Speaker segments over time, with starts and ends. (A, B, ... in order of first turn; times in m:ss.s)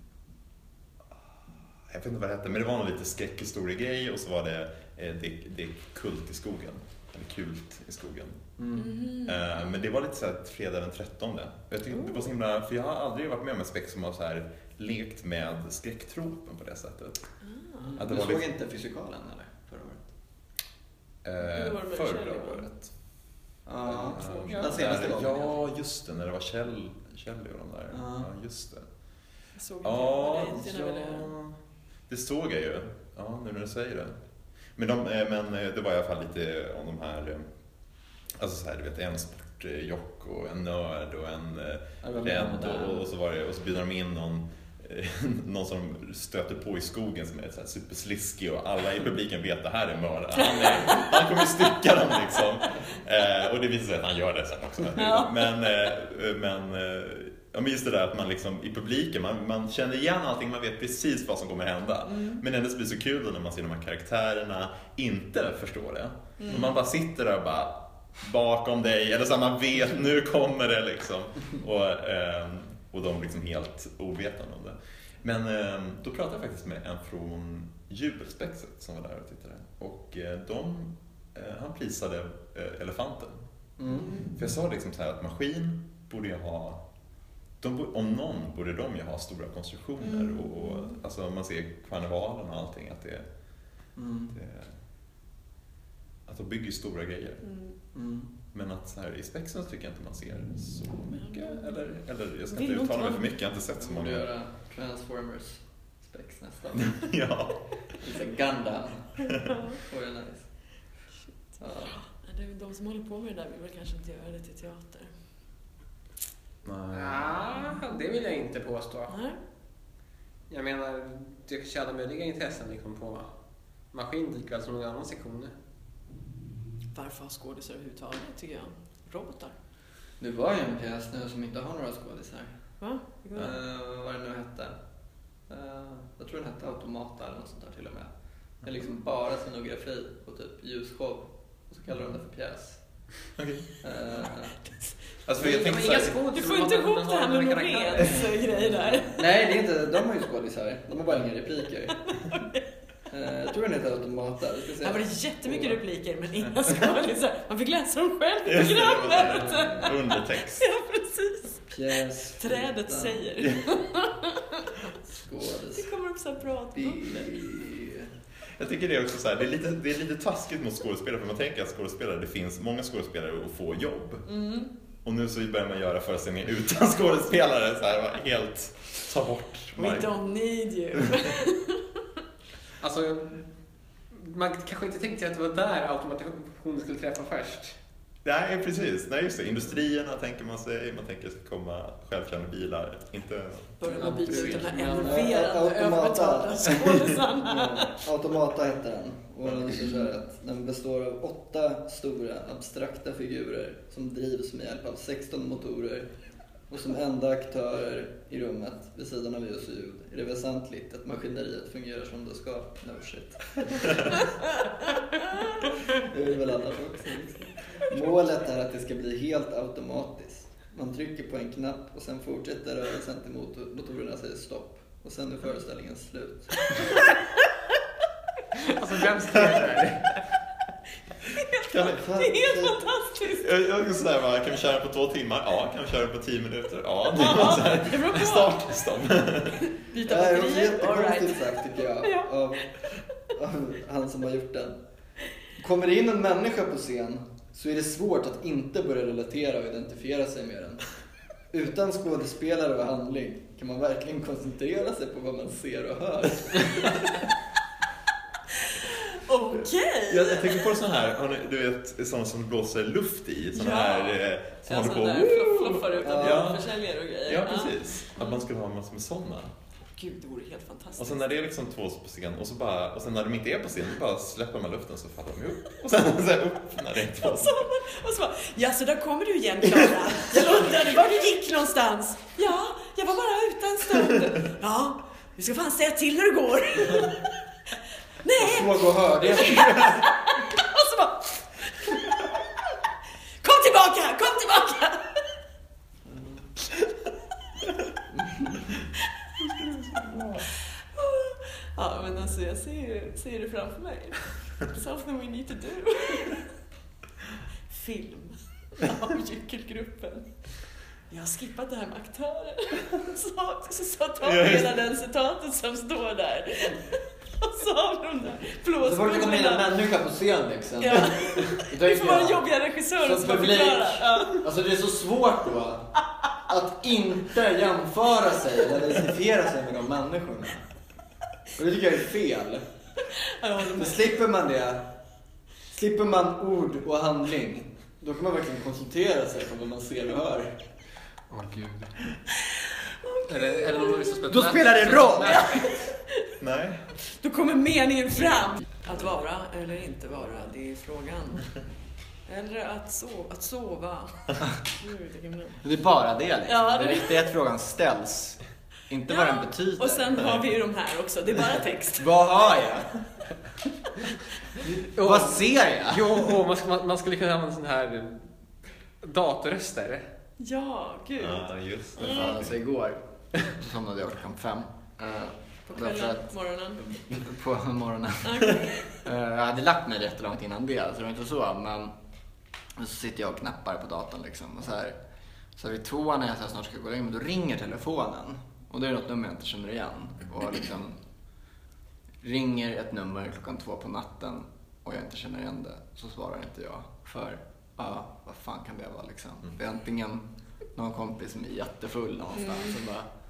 0:01.9-0:08.4 A
0:08.6-0:08.9 B
0:08.8-0:09.4 C
0:09.2-0:17.3 A
0:11.9-0:12.3 C
0:17.4-0:17.9 C
0:17.9-0:20.1 B
0:18.0-0:18.5 A
0:21.2-0:22.9 A
0:21.4-0:22.7 C
0:23.7-0:25.5 B
0:23.8-0:28.9 A
0:24.2-0:25.0 C
0:24.5-0:24.8 D
0:27.9-0:28.3 B
0:29.6-0:31.3 C
0:29.8-0:31.6 A
0:32.1-0:34.2 A
0:34.8-0:37.5 A
0:38.4-1:23.4 A
0:42.0-0:43.1 B
0:50.4-0:51.1 C
0:55.0-0:55.4 C
1:02.1-1:02.4 C
1:06.4-1:06.7 C
1:23.8-1:24.2 B
1:24.0-1:24.3 C
1:24.4-1:26.8 A
1:27.6-1:33.3 A
1:30.0-1:31.0 C
1:34.0-1:34.3 B
1:34.3-1:34.8 A
1:36.3-1:37.4 A
1:37.4-1:37.8 C
1:37.9-1:38.3 B
1:38.5-1:44.2 A
1:41.1-1:41.8 C
1:42.5-1:43.3 C
1:43.8-1:47.0 B
1:46.8-1:47.6 A
1:48.0-1:49.1 B
1:49.5-1:49.8 C
1:49.7-1:50.4 B
1:51.6-1:52.0 B
1:51.8-1:55.1 C
1:56.6-1:57.8 A
1:56.9-1:59.1 D
1:59.1-1:59.4 C
2:00.5-2:03.3 D
2:03.9-2:05.5 D
2:06.9-2:09.6 C
2:10.2-2:12.5 B
2:12.8-2:13.6 C
2:13.4-2:14.8 B
2:15.5-2:18.1 B
2:18.6-2:22.8 B
2:23.4-2:23.7 A
2:23.8-2:24.6 B
2:25.3-2:26.2 A
2:25.4-2:28.4 D
2:26.3-2:29.2 C
2:29.2-2:32.0 B
2:32.1-2:32.6 C
2:33.1-2:35.8 B
2:34.8-2:44.9 C
2:38.4-2:40.6 A
2:39.5-2:39.8 B
2:41.7-2:43.3 B
2:45.1-2:45.9 B
2:45.7-2:47.6 C
2:46.8-2:48.1 B
2:48.6-2:54.2 A
2:54.3-2:54.7 C
2:55.0-3:00.1 A
2:59.8-3:01.9 C
3:02.8-3:03.5 D
3:04.1-3:07.8 D
3:08.2-3:13.8 A
3:13.8-3:18.1 C
3:13.9-3:15.4 D
3:14.0-3:26.1 B
3:26.7-3:34.2 B
3:35.9-3:46.8 B
3:37.6-3:37.9 C
3:48.7-3:50.2 D
3:51.3-3:53.5 C
3:51.7-3:52.0 A
3:51.8-3:52.8 B
3:53.4-3:59.6 A
3:57.1-3:58.7 C
3:59.6-4:02.6 C
4:00.0-4:02.7 B
4:03.3-4:04.8 B
4:05.6-4:10.8 B
4:11.5-4:17.2 B
4:18.7-4:20.7 C
4:20.1-4:29.5 A
4:23.5-4:28.4 C
4:26.0-4:26.6 B
4:30.0-4:31.3 C
4:31.0-4:37.6 A
4:37.1-4:47.2 C
4:48.2-4:52.4 C
4:48.4-4:50.0 B
4:53.4-4:55.2 C
4:56.1-4:56.5 B
4:58.2-4:58.6 B
5:00.0-5:00.4 A
5:00.8-5:06.5 C
5:07.7-5:10.5 C
5:11.1-5:19.7 C
5:18.8-5:25.9 B
5:20.8-5:24.5 C
5:26.5-5:30.7 B
5:31.6-5:32.6 B
5:33.1-5:34.1 C
5:33.7-5:34.9 B
5:35.7-5:40.6 B
5:41.3-5:41.9 D
5:42.7-5:44.2 C
5:43.3-5:45.7 D
5:44.3-5:45.7 B
5:45.2-5:46.3 C
5:46.4-5:46.8 A
5:47.0-5:51.6 C
5:52.3-5:55.6 C
5:55.6-6:00.2 B
5:56.4-5:57.3 C
5:59.1-6:02.2 C
6:02.0-6:03.0 B
6:04.6-6:06.4 B
6:04.9-6:08.3 D
6:09.0-6:10.0 D
6:10.4-6:12.3 C
6:11.2-6:12.5 A
6:12.0-6:22.0 B
6:15.7-6:17.0 C
6:18.2-6:19.0 C
6:22.8-6:25.0 B
6:25.6-6:31.0 B
6:32.2-6:43.1 B
6:42.4-6:42.8 C